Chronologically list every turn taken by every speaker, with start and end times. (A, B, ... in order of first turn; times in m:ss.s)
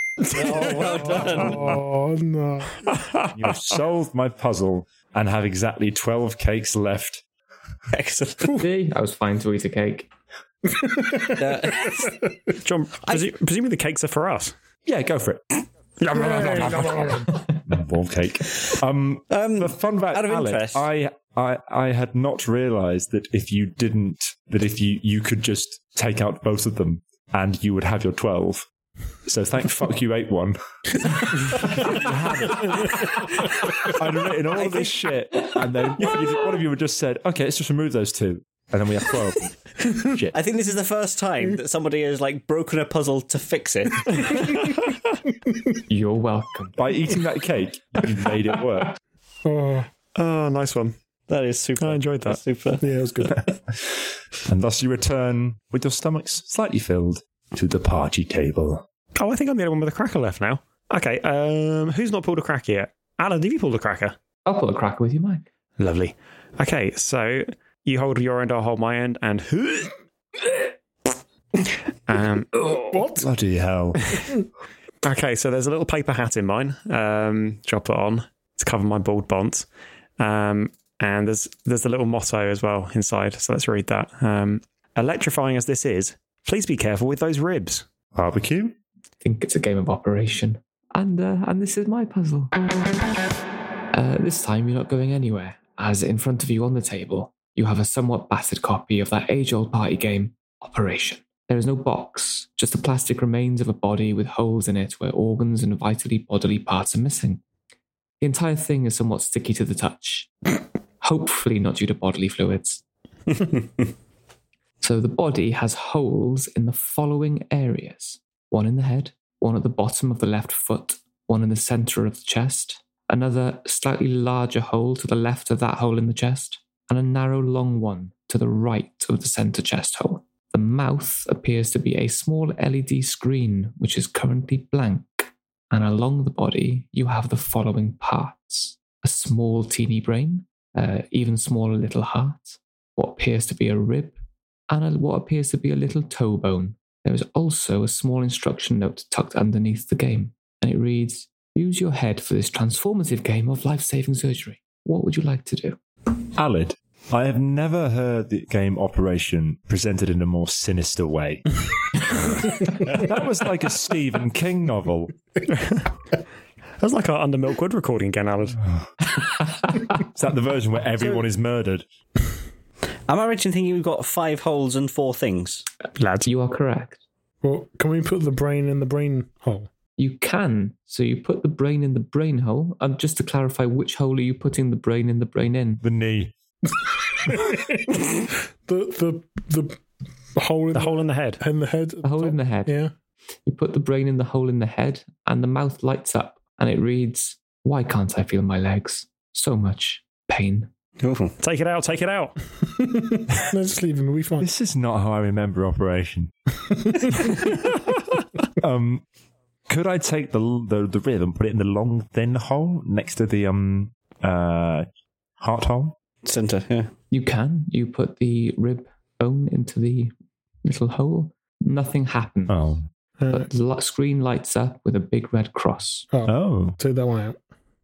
0:00.3-0:01.8 A
0:00.8-0:02.9 B
0:03.4-0:07.2 C
0:07.9-0:08.6 A
0:08.6-0:10.1 D
0:10.7-0:12.3 B
0:11.4-0:12.2 A
0:12.6-0:14.5 E
0:13.0-0:13.3 A
0:14.9-0:15.4 C
0:16.0-0:17.3 E
0:16.1-0:17.4 B
0:17.7-0:28.7 C
0:19.3-0:20.8 A
0:29.3-0:30.6 C
0:31.2-0:33.0 C
0:33.8-0:40.3 C
0:34.6-0:34.9 A
0:40.3-0:44.7 A
0:45.9-0:46.8 D
0:46.8-0:49.0 C
0:49.4-0:49.9 B
0:50.2-0:51.0 E
0:51.3-0:53.4 A
0:51.8-0:52.4 E
0:52.8-0:53.4 B
0:53.8-0:58.8 C
0:59.2-1:04.2 E
1:04.5-1:05.4 D
1:05.8-1:10.7 E
1:11.6-1:13.0 E
1:12.8-1:13.3 B
1:13.2-1:14.2 C
1:15.0-1:19.7 E
1:20.2-1:27.8 E
1:28.2-1:28.8 C
1:29.2-1:32.5 D
1:33.9-1:47.4 D
1:48.2-1:50.3 D
1:51.0-1:52.8 D
1:54.8-2:24.2 D
2:24.7-2:35.8 D
2:36.4-2:45.1 C
2:45.5-2:45.8 E
2:46.8-2:48.6 E
2:49.2-2:49.8 D
2:50.1-2:51.8 C
2:53.1-2:55.6 A
2:56.0-2:56.3 E
2:56.2-2:57.0 D
2:57.4-2:59.7 B
3:00.0-3:05.8 D
3:05.8-3:06.3 C
3:06.8-3:09.8 B
3:10.3-3:12.9 B
3:10.7-3:11.4 E
3:12.0-3:12.7 D
3:13.5-3:20.7 D
3:21.0-3:21.4 A
3:21.4-3:22.4 E
3:22.6-3:24.5 B
3:24.4-3:26.3 C
3:27.0-3:27.3 B
3:28.6-3:29.0 C
3:29.7-3:34.9 C
3:35.4-3:35.9 C
3:36.2-3:36.9 A
3:37.1-3:40.1 D
3:40.6-3:42.7 D
3:42.5-3:42.9 C
3:43.2-3:43.5 B
3:43.3-3:46.1 D
3:46.1-3:47.4 B
3:46.3-3:46.8 C